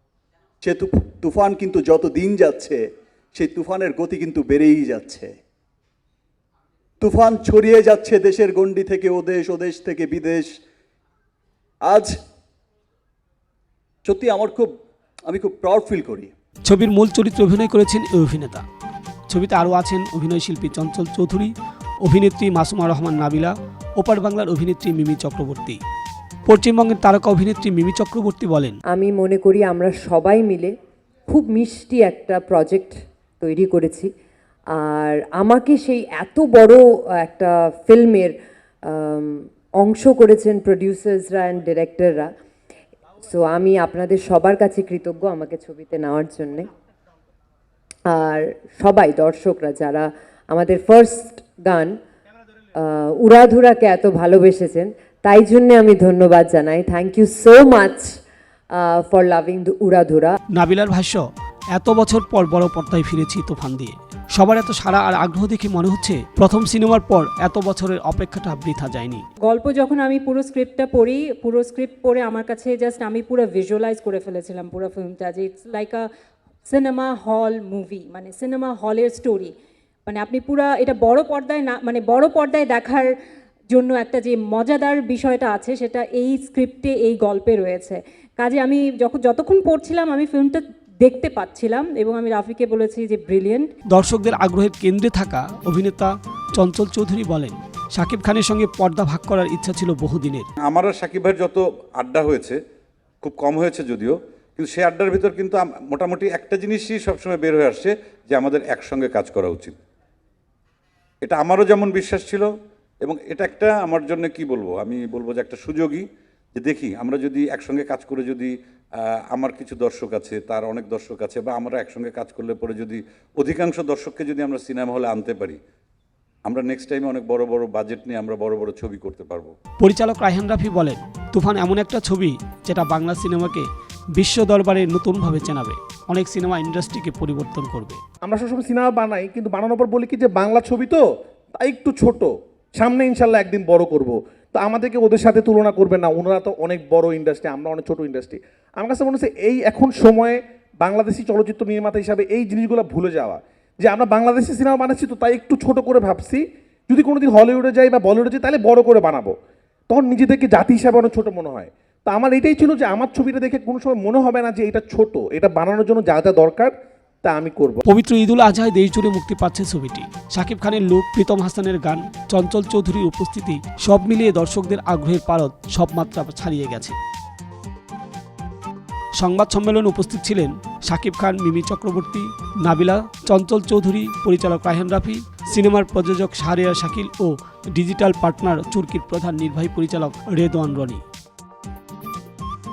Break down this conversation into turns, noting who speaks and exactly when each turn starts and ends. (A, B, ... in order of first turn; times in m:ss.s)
0:00.6-0:02.8 A
0:03.4-0:05.3 A
0:07.0-0:10.5 A
0:11.8-0:12.1 A
0:14.1-0:14.7 A
0:15.3-0:16.3 A
0:16.6-0:18.6 B
0:19.3-0:21.5 B
0:22.0-0:25.8 B
0:26.5-0:28.8 B
0:28.9-0:30.7 C
0:31.3-0:34.1 C
0:34.7-0:42.3 C
0:43.2-0:46.7 C
0:48.0-0:52.0 C
0:52.7-0:58.2 C
0:58.7-1:00.4 C
1:00.5-1:09.2 B
1:09.4-1:16.0 D
1:16.7-1:19.5 D
1:20.1-1:23.1 D
1:23.7-1:33.7 D
1:33.9-1:40.5 B
1:40.6-1:42.6 E
1:43.2-1:49.8 E
1:51.2-1:52.5 E
1:53.0-1:58.5 E
1:59.3-2:05.6 E
2:06.4-2:09.5 E
2:09.8-2:18.0 B
2:18.2-2:21.0 F
2:21.6-2:39.3 F
2:39.9-2:47.8 F
2:47.9-2:57.0 B
2:59.2-3:11.0 B